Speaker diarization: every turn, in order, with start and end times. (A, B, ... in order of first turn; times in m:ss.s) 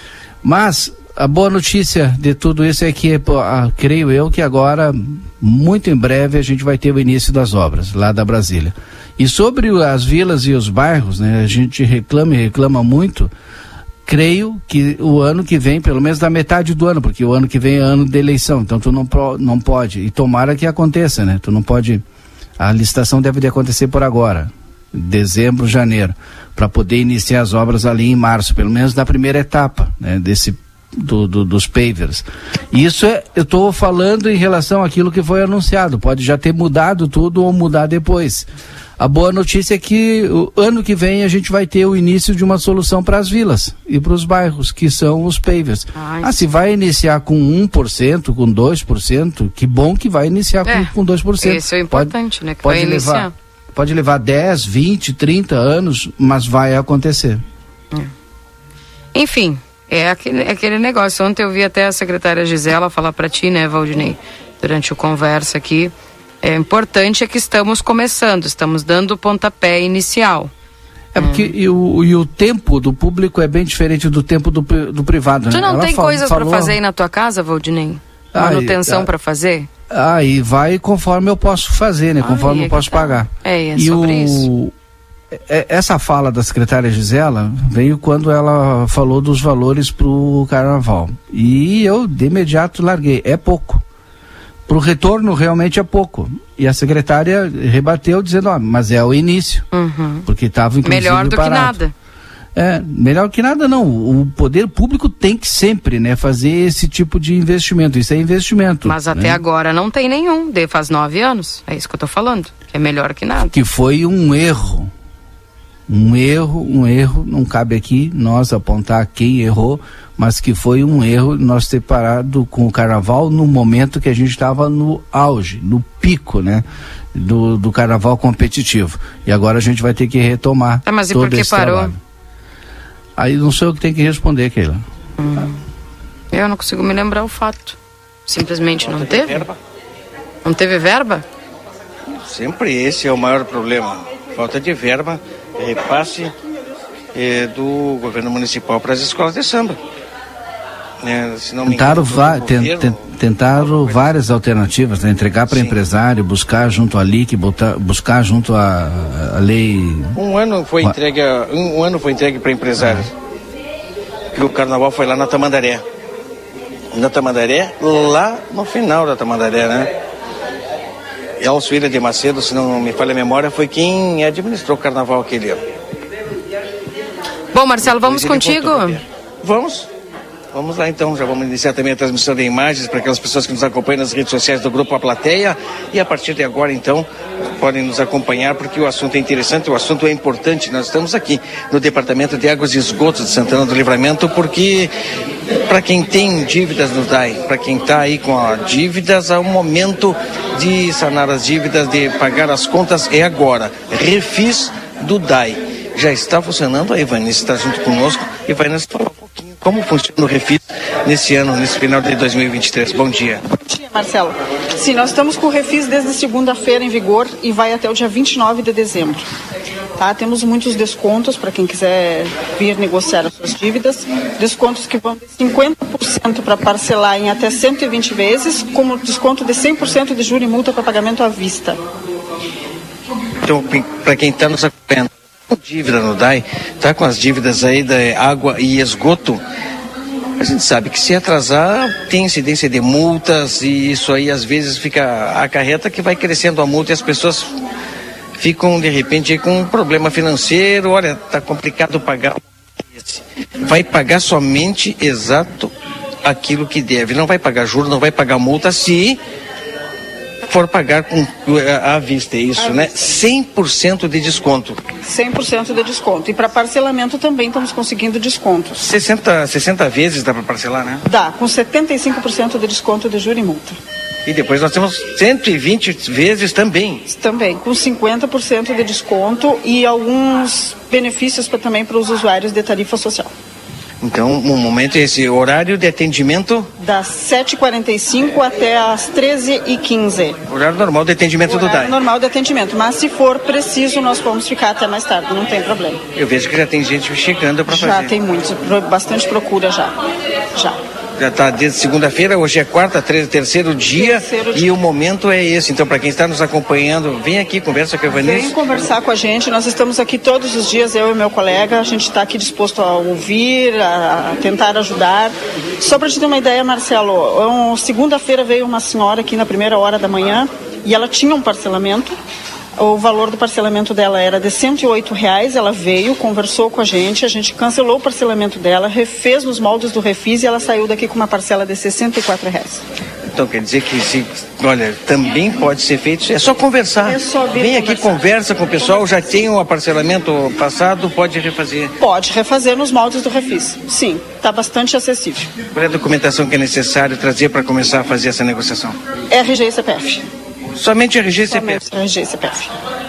0:00.4-0:13.3 A
0:14.0-0:22.0 A
0:22.6-0:57.4 A
0:45.9-0:46.5 B
0:50.6-0:50.9 B
0:51.4-0:53.3 B
0:59.1-1:10.5 B
1:11.1-1:16.8 A
1:11.2-1:11.5 B
1:15.5-1:19.7 B
1:18.3-1:19.1 A
1:19.9-1:24.7 A
1:22.2-1:24.5 B
1:25.3-1:33.8 A
1:34.7-1:39.7 A
1:39.7-1:40.2 B
1:40.2-1:41.8 A
1:40.8-1:41.9 B
1:42.5-1:49.4 A
1:48.8-1:53.5 B
1:53.5-1:54.9 A
1:55.9-2:12.0 A
2:10.8-2:11.9 B
2:13.2-2:14.8 A
2:15.2-2:15.6 B
2:16.3-2:19.4 B
2:18.8-2:19.6 C
2:20.4-2:21.2 B
2:22.1-2:26.3 C
2:27.1-2:29.8 C
2:31.0-2:33.0 C
2:31.6-2:40.2 A
2:33.6-2:34.1 C
2:40.2-2:43.1 C
2:42.8-2:43.1 A
2:44.3-2:45.8 C
2:46.9-2:49.9 C
2:51.4-2:55.6 C
2:57.5-2:59.0 B
2:57.8-2:59.9 C
3:00.5-3:14.9 C
3:15.6-3:33.4 C
3:33.5-3:39.2 D
3:40.0-3:51.8 D
3:53.4-3:59.4 C
4:00.4-4:07.5 C
4:08.4-4:12.4 C
4:12.9-4:15.7 C
4:16.2-4:19.2 C
4:20.4-4:24.8 C
4:22.6-4:22.9 D
4:25.0-4:28.8 D
4:28.8-4:31.0 C
4:31.1-4:33.8 D
4:34.2-4:37.0 C
4:37.1-4:43.3 D
4:44.0-4:46.7 C
4:46.8-4:50.4 D
4:50.5-4:52.0 C
4:51.4-4:56.0 D
4:56.2-4:58.1 C
4:57.7-5:00.0 D
5:00.5-5:00.8 D
5:01.2-5:08.5 C
5:03.9-5:04.8 D
5:08.1-5:22.1 D
5:22.8-5:32.8 D
5:33.3-5:41.9 C
5:37.0-5:38.2 D
5:42.0-5:45.5 D
5:45.7-5:48.9 C
5:49.3-5:50.2 D
5:50.7-5:51.8 C
5:51.5-5:52.7 D